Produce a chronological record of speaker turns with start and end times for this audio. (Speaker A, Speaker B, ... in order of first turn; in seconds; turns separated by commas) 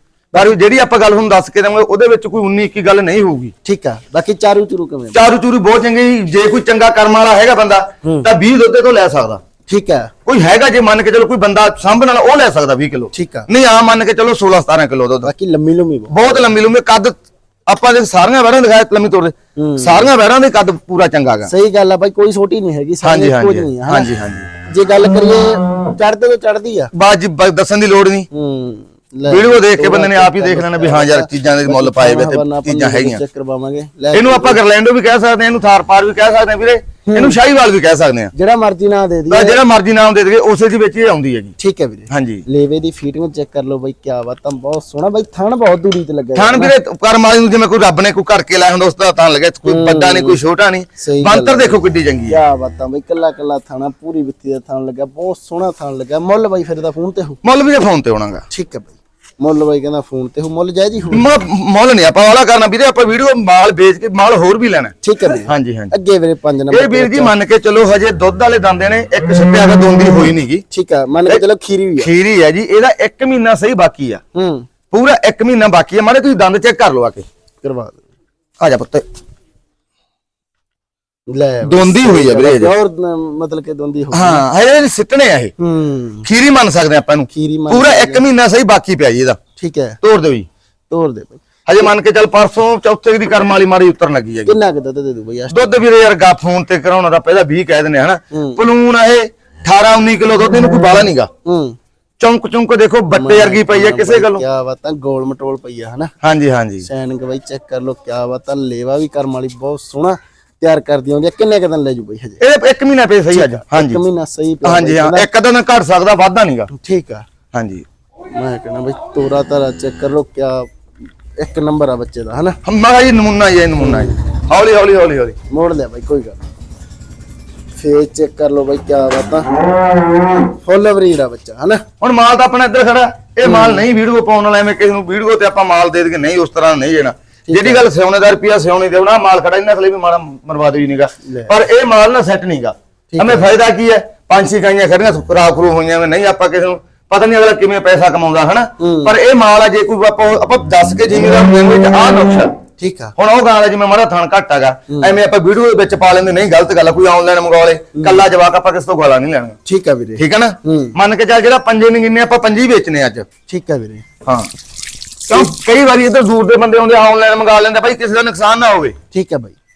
Speaker A: 0.3-3.5, Speaker B: 3.6-5.2, Speaker A: 5.1-9.4, Speaker B: 9.7-10.1, Speaker A: 10.3-15.3, Speaker B: 13.1-13.5, Speaker B: 15.2-16.5, Speaker A: 16.1-21.5, Speaker B: 19.6-20.1, Speaker B: 21.5-24.1, Speaker A: 23.0-24.5, Speaker B: 24.7-26.9, Speaker A: 26.9-28.3, Speaker B: 28.3-34.6, Speaker A: 29.3-33.2, Speaker A: 34.1-38.3, Speaker B: 37.1-37.4, Speaker B: 38.3-39.6, Speaker A: 39.3-41.5, Speaker B: 41.6-46.7, Speaker A: 42.1-42.4, Speaker A: 46.4-52.4, Speaker B: 49.6-50.4, Speaker B: 51.0-57.4, Speaker A: 57.4-58.4, Speaker B: 58.5-61.3, Speaker A: 61.1-64.9, Speaker B: 65.0-67.3, Speaker A: 65.5-65.9, Speaker A: 66.7-70.6, Speaker B: 70.7-72.1, Speaker A: 72.0-74.2, Speaker B: 74.3-74.7, Speaker A: 74.9-77.3, Speaker B: 77.6-78.0, Speaker A: 78.6-79.0, Speaker B: 81.3-84.4, Speaker A: 81.6-82.7, Speaker A: 84.1-85.5, Speaker B: 85.6-86.3, Speaker A: 86.2-89.4, Speaker B: 87.3-88.2, Speaker B: 89.6-90.0, Speaker A: 90.0-90.5, Speaker B: 90.9-91.4, Speaker A: 91.7-94.6, Speaker B: 94.5-95.8, Speaker A: 95.5-101.3, Speaker B: 98.3-98.6, Speaker B: 101.5-101.8, Speaker A: 102.2-104.4, Speaker B: 103.1-106.1, Speaker A: 106.2-106.9, Speaker B: 106.8-112.4, Speaker A: 112.4-114.0, Speaker B: 113.3-115.3, Speaker A: 114.6-116.7, Speaker B: 116.7-117.3, Speaker A: 117.5-117.8, Speaker B: 118.3-120.7, Speaker B: 121.4-122.6, Speaker A: 122.7-125.4, Speaker B: 123.8-124.2, Speaker B: 125.5-126.4, Speaker B: 127.8-129.5, Speaker B: 130.6-131.8, Speaker A: 132.0-152.5, Speaker B: 133.4-133.8, Speaker B: 137.5-137.9, Speaker B: 141.2-141.5, Speaker B: 143.1-143.5, Speaker B: 148.8-149.2, Speaker B: 152.8-153.1, Speaker A: 153.2-159.6, Speaker B: 154.9-155.2, Speaker B: 158.0-158.2, Speaker B: 159.7-160.9, Speaker A: 160.2-163.3, Speaker B: 163.5-164.1, Speaker A: 165.3-169.0, Speaker B: 169.1-169.6